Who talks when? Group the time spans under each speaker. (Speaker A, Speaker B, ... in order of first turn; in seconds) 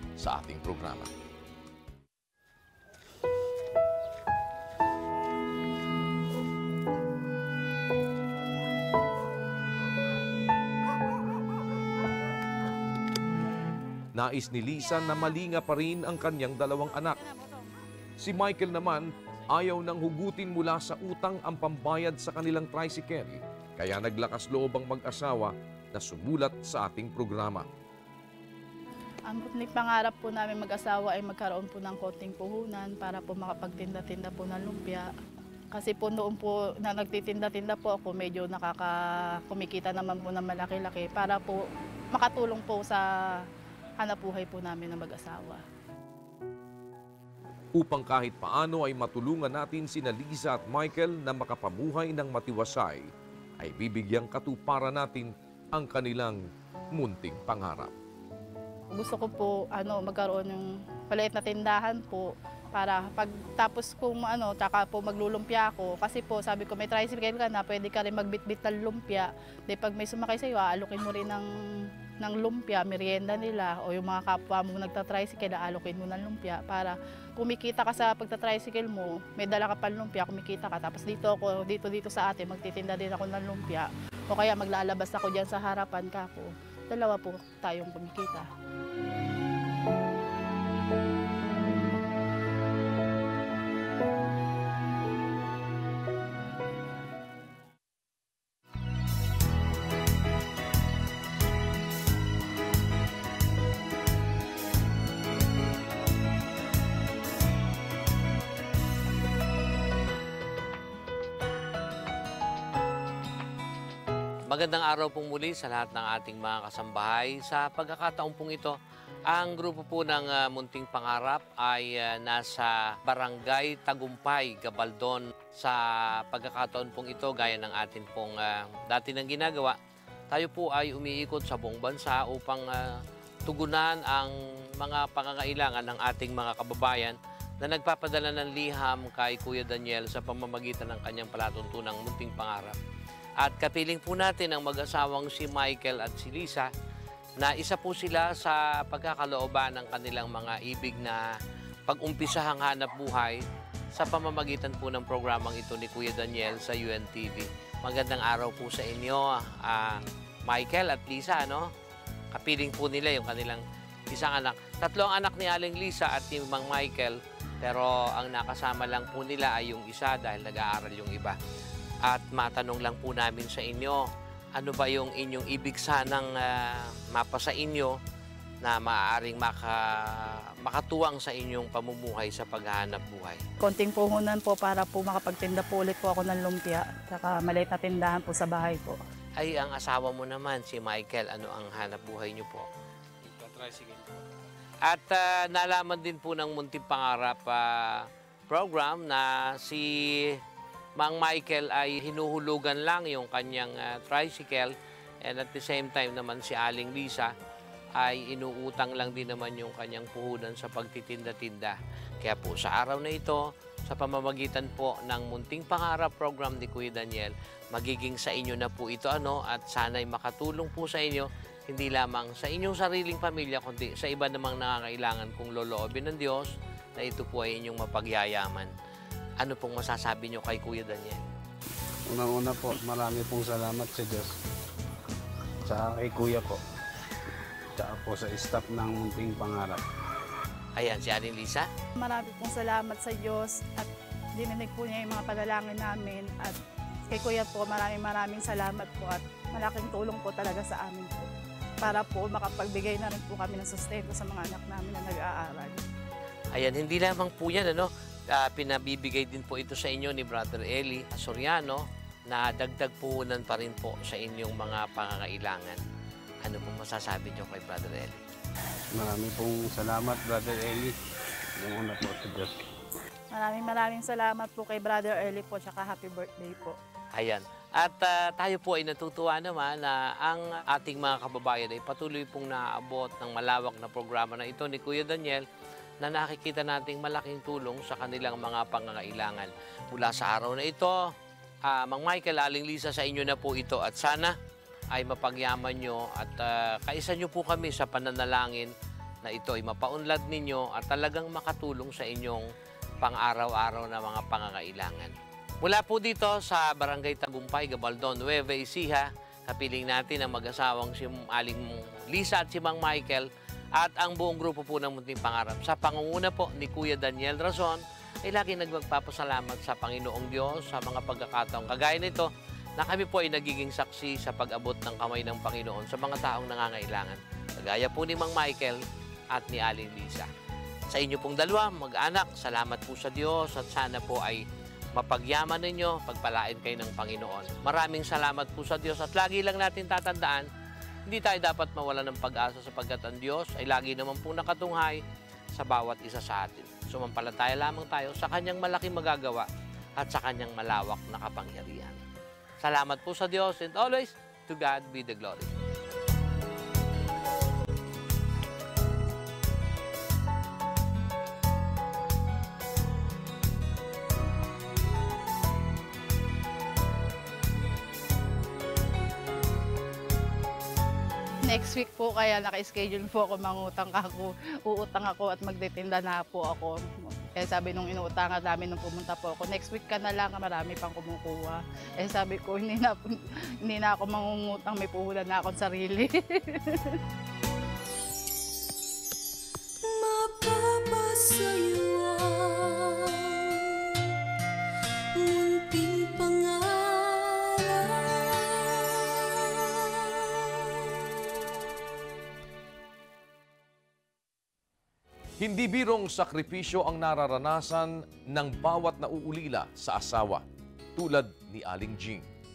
Speaker A: 0.2-1.1, 14.1-17.2, 18.2-27.7, 47.7-56.4, 56.9-57.9, 405.4-410.4, 410.9-412.3
Speaker B: 17.3-17.8, 29.3-35.1, 35.7-39.0, 39.5-43.0, 44.0-45.6, 58.9-88.5, 183.6-189.0, 242.0-246.6, 247.1-251.3, 251.8-255.8, 273.3-276.8, 371.5-387.0
Speaker C: 114.5-118.8, 119.3-129.8, 130.3-142.8, 143.4-146.7, 147.4-151.2, 151.9-153.4, 153.9-161.7, 162.3-171.4, 172.0-174.0, 174.6-178.0, 178.6-183.4, 189.4-192.7, 194.8-200.4, 201.0-207.3, 208.0-228.7, 229.4-231.2, 240.8-241.7, 256.5-265.8, 266.4-268.2, 277.1-285.4, 286.0-291.1, 291.6-294.4, 294.9-298.7, 299.2-302.5, 303.0-328.8, 329.3-330.3, 330.9-334.4, 334.9-340.5, 341.1-345.0, 345.6-349.5, 350.0-352.0, 352.6-355.5
Speaker D: 232.1-234.3, 235.7-236.6, 237.8-239.8, 268.9-270.9, 271.6-272.5
Speaker E: 389.8-393.9, 395.1-400.6